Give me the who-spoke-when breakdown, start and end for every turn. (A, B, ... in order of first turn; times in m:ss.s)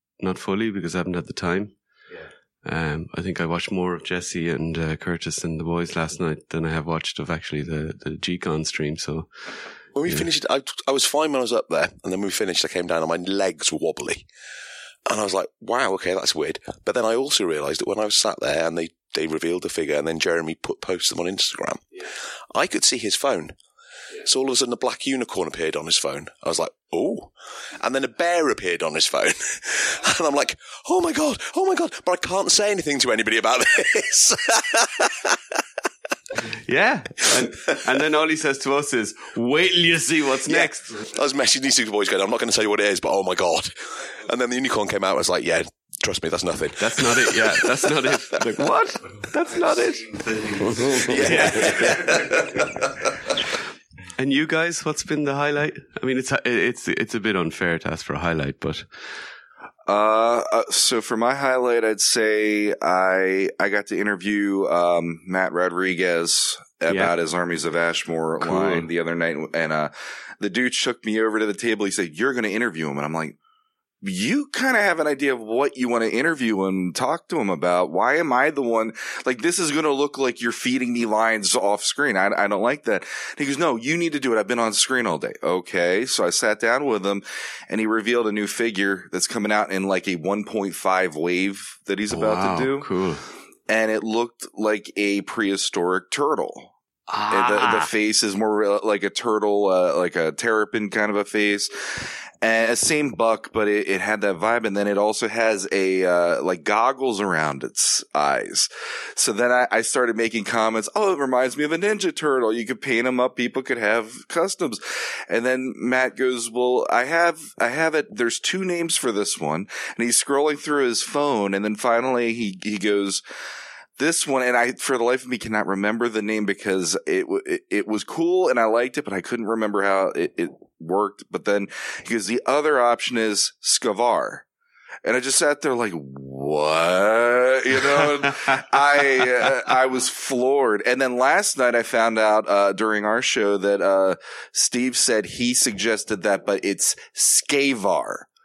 0:00.2-0:01.8 A
0:02.6-0:09.5 A
0:10.0-0:14.3 B
0:15.1-0:23.5 B
0:24.2-0:35.4 B
0:36.7-0:41.1 A
0:40.5-0:48.3 B
0:46.8-0:52.3 A
0:50.9-0:52.9 B
0:54.2-0:58.9 A
0:59.9-1:13.4 C
1:08.4-1:08.9 A
1:14.0-1:32.9 C
1:32.1-1:33.3 A
1:33.7-1:36.7 C
1:37.1-1:37.9 A
1:37.3-2:03.2 C
2:04.0-2:14.4 C
2:15.0-2:28.3 C